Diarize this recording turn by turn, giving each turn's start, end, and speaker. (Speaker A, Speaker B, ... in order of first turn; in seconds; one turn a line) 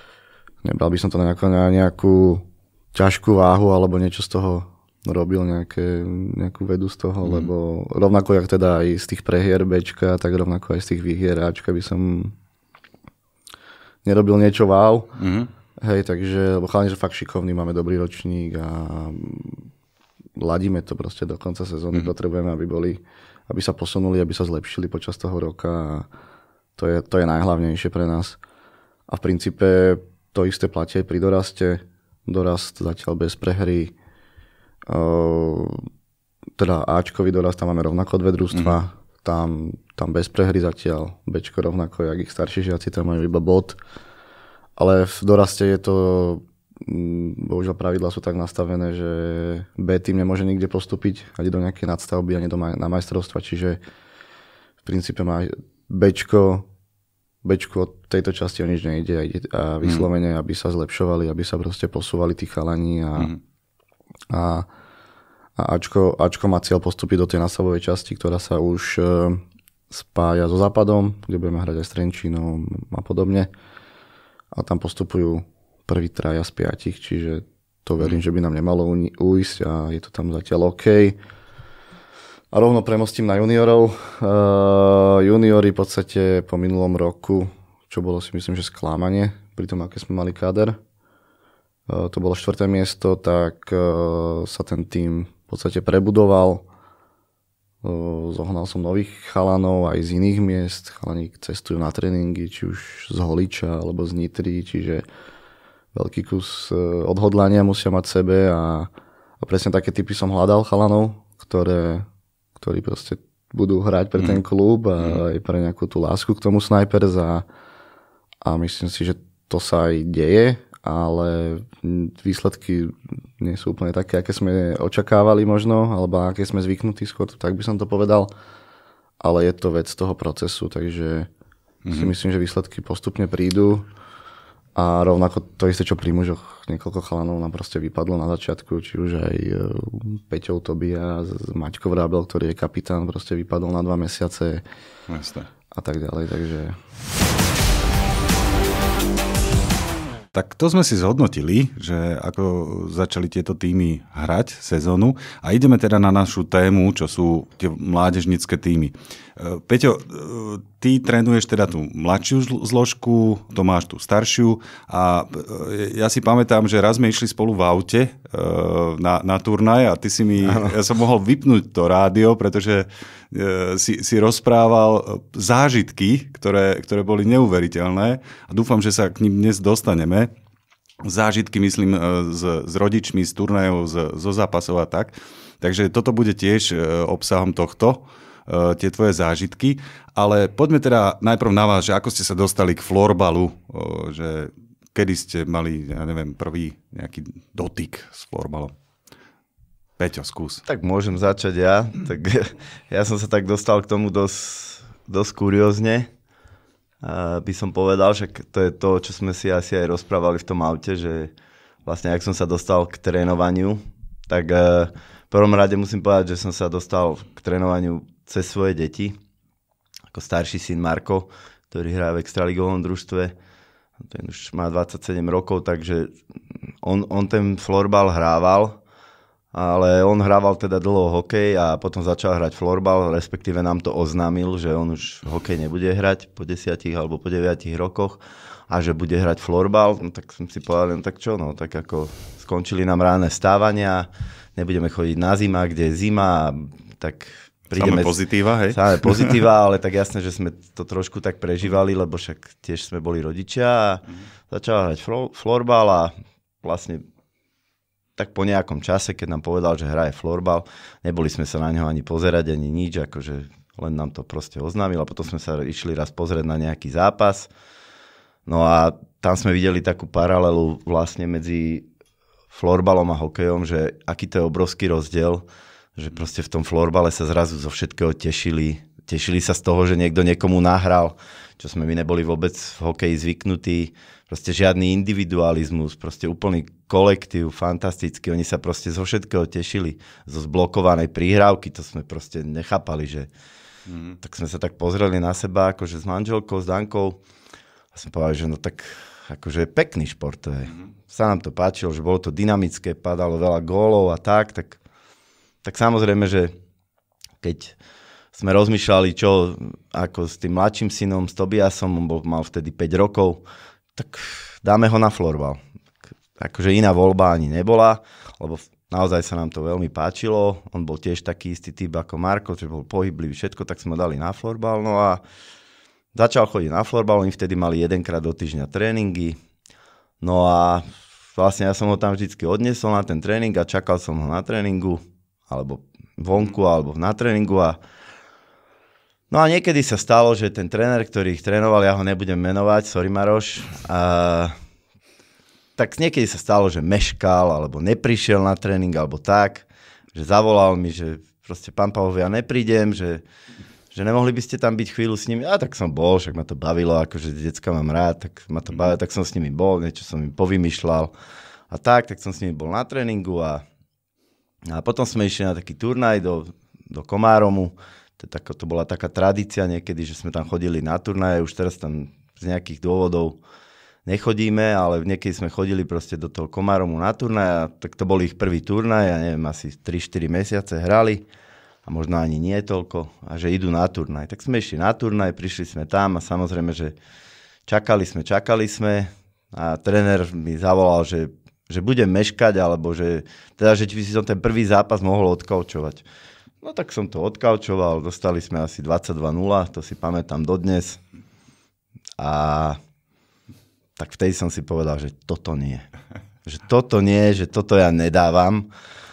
Speaker A: 0.6-12.3
Speaker B: 7.2-7.5
Speaker A: 14.0-15.2
Speaker B: 15.2-15.5
Speaker A: 15.8-19.7
Speaker A: 20.4-26.1
Speaker A: 26.8-28.4
Speaker A: 29.1-33.9
Speaker A: 34.9-35.8
Speaker A: 36.6-43.8
Speaker A: 44.8-53.8
Speaker A: 54.8-56.6
Speaker A: 57.4-63.3
Speaker A: 64.3-64.7
Speaker A: 65.6-73.5
Speaker A: 74.5-81.2
Speaker A: 82.5-90.8
Speaker A: 91.9-96.6
Speaker A: 97.8-105.0
Speaker A: 105.9-112.1
Speaker A: 112.6-117.4
Speaker A: 118.4-128.3
Speaker A: 129.2-131.3
Speaker B: 131.8-132.1
Speaker A: 131.9-133.9
Speaker A: 134.8-144.6
Speaker B: 145.1-145.5
Speaker A: 145.7-146.8
Speaker B: 150.3-180.3
Speaker C: 170.4-170.8
Speaker B: 181.0-198.7
Speaker B: 200.0-200.6
Speaker C: 200.7-206.1
Speaker C: 207.0-211.3
Speaker C: 211.8-219.1
Speaker C: 220.1-223.3
Speaker C: 224.1-226.1
Speaker C: 226.8-228.8
Speaker C: 229.5-257.0
Speaker B: 247.8-249.3
Speaker C: 258.2-267.5
Speaker C: 268.4-271.9
Speaker C: 272.5-275.4
Speaker C: 276.0-293.3
Speaker B: 293.9-294.2
Speaker C: 294.2-297.2
Speaker C: 297.9-304.8
Speaker C: 305.6-306.5
Speaker C: 307.4-307.7
Speaker C: 308.3-313.4
Speaker C: 313.9-315.6
Speaker C: 316.4-325.2
Speaker C: 326.1-329.4
Speaker C: 330.2-337.8
Speaker C: 339.3-344.5
Speaker C: 345.8-353.2
Speaker C: 353.9-361.1
Speaker C: 361.7-363.6
Speaker C: 364.7-373.4
Speaker C: 374.1-381.2
Speaker C: 381.9-386.9
Speaker C: 387.7-396.0
Speaker C: 396.6-401.0
Speaker C: 402.2-402.8
Speaker C: 404.0-405.9
Speaker C: 406.4-408.7